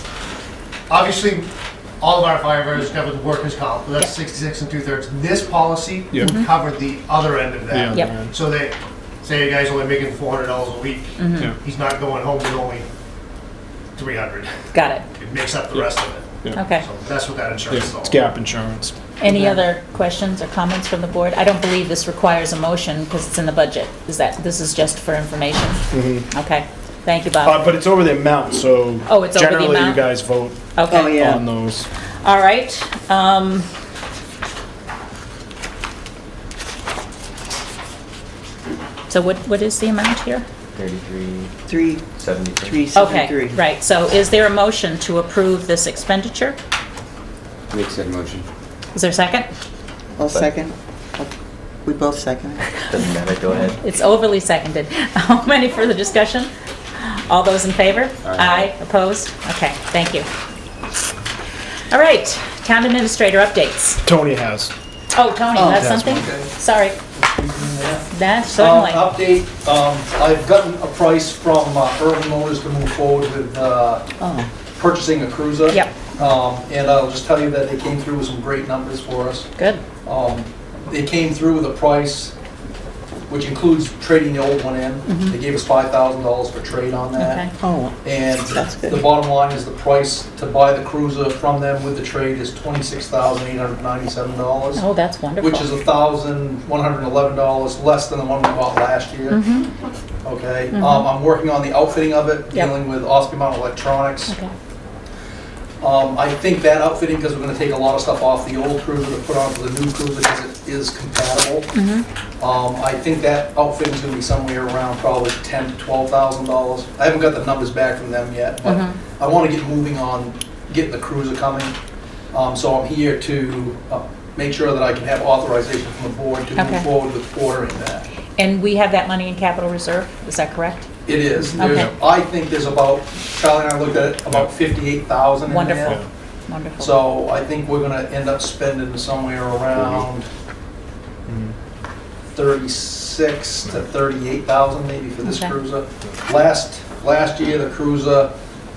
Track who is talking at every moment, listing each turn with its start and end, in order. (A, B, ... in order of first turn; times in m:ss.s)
0:00.9-0:01.5 A
0:02.0-0:12.9 A
0:06.2-0:06.5 B
0:07.7-0:08.3 C
0:11.2-0:11.5 B
0:14.0-0:14.5 A
0:14.7-0:15.0 B
0:15.2-0:18.3 A
0:16.5-0:16.9 B
0:17.7-0:19.0 C
0:19.2-0:27.6 B
0:19.3-0:19.6 D
0:25.9-0:26.3 C
0:27.4-0:31.9 C
0:29.1-0:30.0 B
0:30.8-0:31.2 B
0:30.9-0:31.5 D
0:32.2-0:33.7 B
0:39.1-0:40.5 B
0:40.7-0:41.5 E
0:41.7-0:43.6 D
0:42.1-0:42.9 E
0:42.9-0:46.6 B
0:47.7-0:48.5 E
0:49.0-0:49.5 B
0:50.2-0:51.3 D
0:51.8-0:52.7 D
0:52.9-0:53.8 E
0:53.5-1:00.3 B
0:58.2-0:58.7 E
1:01.9-1:04.0 B
1:04.0-1:04.7 C
1:05.1-1:07.0 B
1:05.6-1:05.8 D
1:05.6-1:06.2 C
1:06.0-1:06.5 F
1:07.2-1:14.1 F
1:08.1-1:09.0 B
1:14.2-1:14.5 D
1:14.8-1:19.5 F
1:15.7-1:15.9 B
1:19.6-1:19.8 B
1:20.0-1:22.3 F
1:23.3-1:27.4 F
1:25.1-1:25.4 B
1:27.2-1:27.5 B
1:27.6-1:29.1 D
1:28.0-1:34.8 F
1:34.8-1:35.7 B
1:35.4-1:39.4 F
1:39.3-1:39.7 B
1:40.2-1:44.4 F
1:40.7-1:41.1 B
1:45.8-1:51.7 F
1:51.7-1:52.0 B
1:52.4-2:01.8 F
1:58.6-1:59.0 B
2:02.3-2:08.1 F
2:06.6-2:06.9 B
2:08.4-2:10.9 B
2:11.1-2:16.0 F
2:11.6-2:11.9 B
2:11.6-2:11.9 C
2:15.5-2:17.0 B
2:16.8-2:20.3 F
2:21.3-2:21.5 C
2:22.3-2:28.3 F
2:25.2-2:25.6 B